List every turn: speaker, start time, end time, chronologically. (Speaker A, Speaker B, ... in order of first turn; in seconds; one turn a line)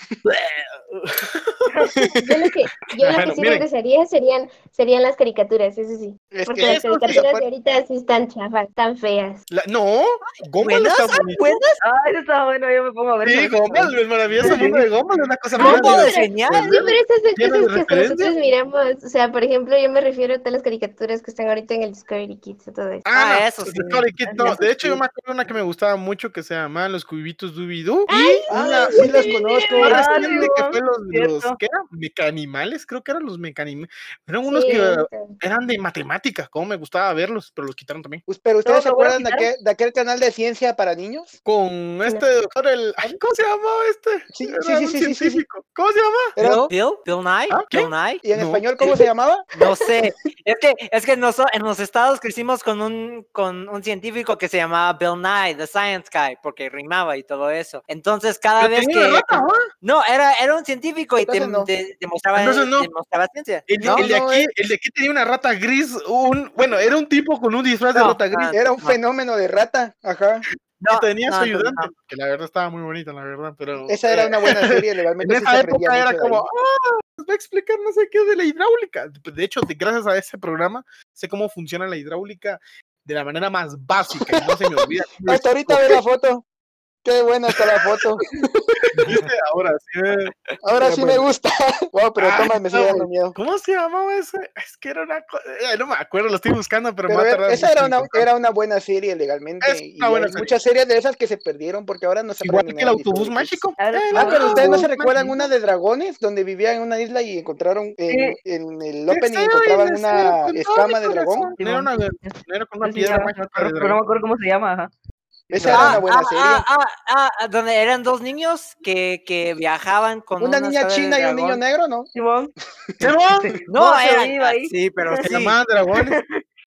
Speaker A: 0.2-2.0
Speaker B: 1.7-1.9
Speaker C: 1.9-2.4
Speaker D: 2.2-9.4
Speaker A: 3.0-3.7
Speaker C: 6.3-7.4
Speaker A: 6.6-7.2
Speaker A: 9.5-11.6
Speaker E: 10.6-11.8
Speaker B: 11.8-14.9
Speaker A: 13.2-18.3
Speaker E: 15.6-16.9
Speaker D: 15.6-23.0
Speaker A: 23.0-38.2
Speaker E: 23.1-25.0
Speaker B: 24.2-24.6
Speaker D: 28.1-30.4
Speaker C: 28.5-30.5
Speaker B: 29.8-31.6
Speaker D: 34.5-35.4
Speaker C: 38.3-41.3
Speaker E: 38.8-39.4
Speaker A: 41.4-46.4
Speaker C: 44.3-45.4
Speaker C: 46.4-46.7
Speaker E: 46.4-48.2
Speaker A: 47.5-48.7
Speaker C: 48.2-49.4
Speaker E: 49.5-64.1
Speaker A: 58.6-59.7
Speaker C: 61.2-61.7
Speaker A: 62.3-62.9
Speaker A: 63.7-68.9
Speaker C: 63.8-64.5
Speaker E: 67.9-68.9
Speaker C: 68.5-70.4
Speaker E: 70.8-71.9
Speaker A: 70.9-86.0
Speaker C: 73.9-76.5
Speaker C: 84.3-86.4
Speaker C: 87.0-89.2
Speaker A: 87.5-88.2
Speaker A: 88.8-91.2
Speaker C: 90.6-93.3
Speaker A: 92.2-98.2
Speaker C: 97.1-103.6
Speaker A: 99.6-100.6
Speaker A: 102.4-105.5
Speaker B: 103.8-104.9
Speaker C: 104.1-111.5
Speaker B: 108.1-108.4
Speaker A: 109.1-114.0
Speaker B: 111.6-114.9
Speaker C: 115.5-116.7
Speaker A: 115.5-116.0
Speaker E: 115.7-121.6
Speaker C: 120.4-122.1
Speaker B: 122.1-122.5
Speaker A: 123.0-123.7
Speaker B: 123.3-125.2
Speaker E: 123.7-125.6
Speaker A: 125.2-126.2
Speaker B: 125.9-126.4